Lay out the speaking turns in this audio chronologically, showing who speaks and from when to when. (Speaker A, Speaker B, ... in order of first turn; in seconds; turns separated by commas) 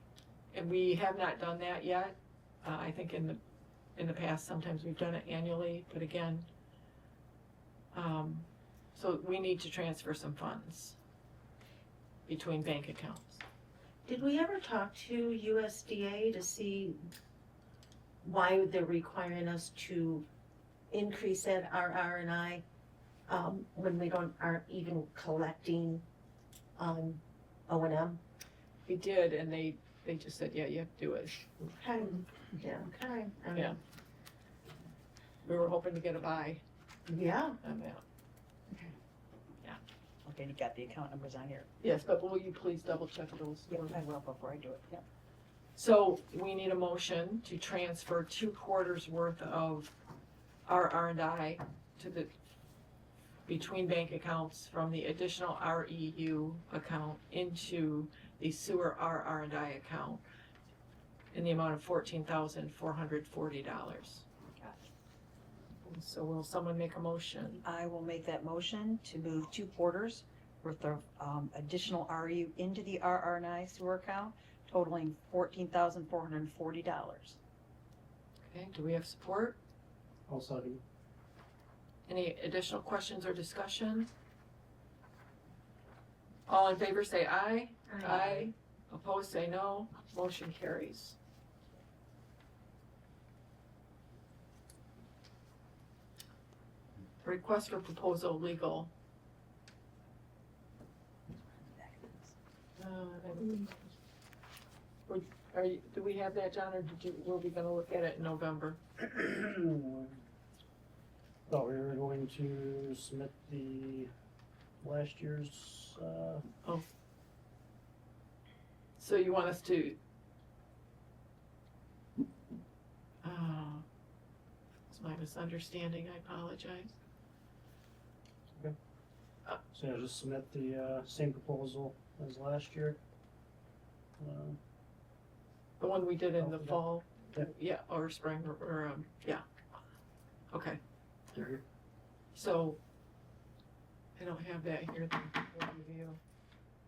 Speaker A: 0.5-3.4, Speaker A: 4.0-6.5, Speaker A: 7.9-11.0, Speaker A: 12.3-13.4, Speaker B: 14.1-17.0, Speaker B: 18.2-20.2, Speaker B: 20.9-22.6, Speaker B: 23.3-26.0, Speaker B: 26.8-28.2, Speaker A: 28.9-31.7, Speaker B: 31.8-33.7, Speaker A: 35.4-36.6, Speaker B: 37.1-37.6, Speaker A: 37.6-38.0, Speaker C: 40.2-41.7, Speaker A: 41.8-44.0, Speaker C: 43.7-45.0, Speaker A: 45.7-49.9, Speaker A: 50.7-52.3, Speaker A: 53.5-60.2, Speaker A: 61.3-64.2, Speaker C: 64.6-64.8, Speaker A: 65.8-67.6, Speaker C: 67.6-77.4, Speaker A: 78.4-79.6, Speaker D: 80.3-80.8, Speaker A: 82.1-84.1, Speaker A: 86.5-91.2, Speaker B: 87.9-88.5, Speaker A: 97.2-98.9, Speaker C: 101.5-102.3, Speaker A: 102.8-103.9, Speaker A: 105.1-108.8, Speaker D: 109.0-110.2, Speaker D: 111.5-114.1, Speaker D: 114.8-116.4, Speaker A: 119.0-120.0, Speaker A: 123.2-123.8, Speaker A: 124.9-126.9, Speaker D: 129.7-133.0, Speaker D: 134.2-134.6, Speaker A: 135.8-139.4, Speaker D: 136.4-136.8, Speaker A: 140.5-140.8, Speaker D: 141.3-141.6, Speaker A: 142.3-142.8, Speaker A: 144.2-146.2